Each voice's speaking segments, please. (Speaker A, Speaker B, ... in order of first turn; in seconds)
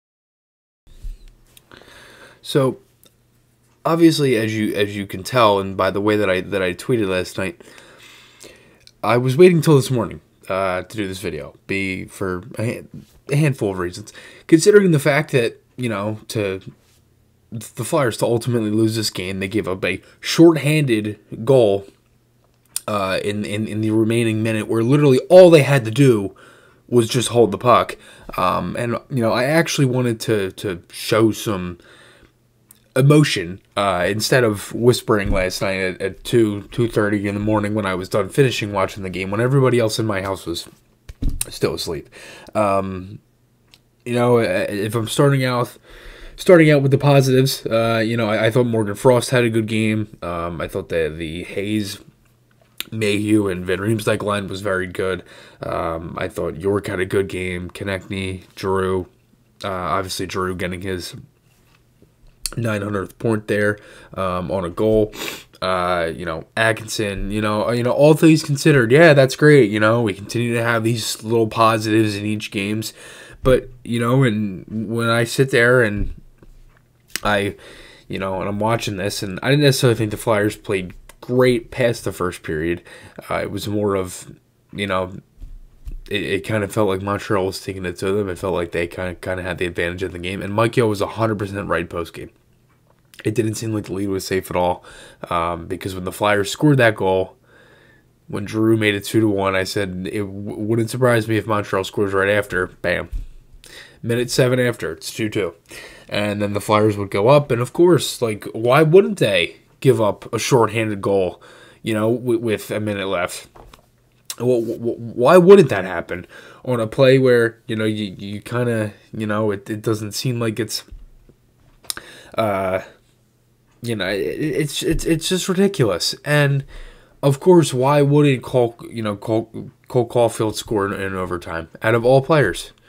Speaker A: 2.4-2.8, 3.8-7.6, 9.0-16.6, 17.5-21.9, 22.9-26.4, 26.9-31.8, 33.0-40.7, 41.5-43.2, 44.0-45.8, 46.4-52.0, 52.9-59.1, 59.6-61.1, 62.6-76.2, 77.2-77.6, 78.1-85.1, 86.1-92.3, 93.2-97.4, 98.3-103.1, 104.0-105.6, 106.1-113.5, 114.4-120.8, 122.3-122.8, 123.8-126.7, 127.2-132.7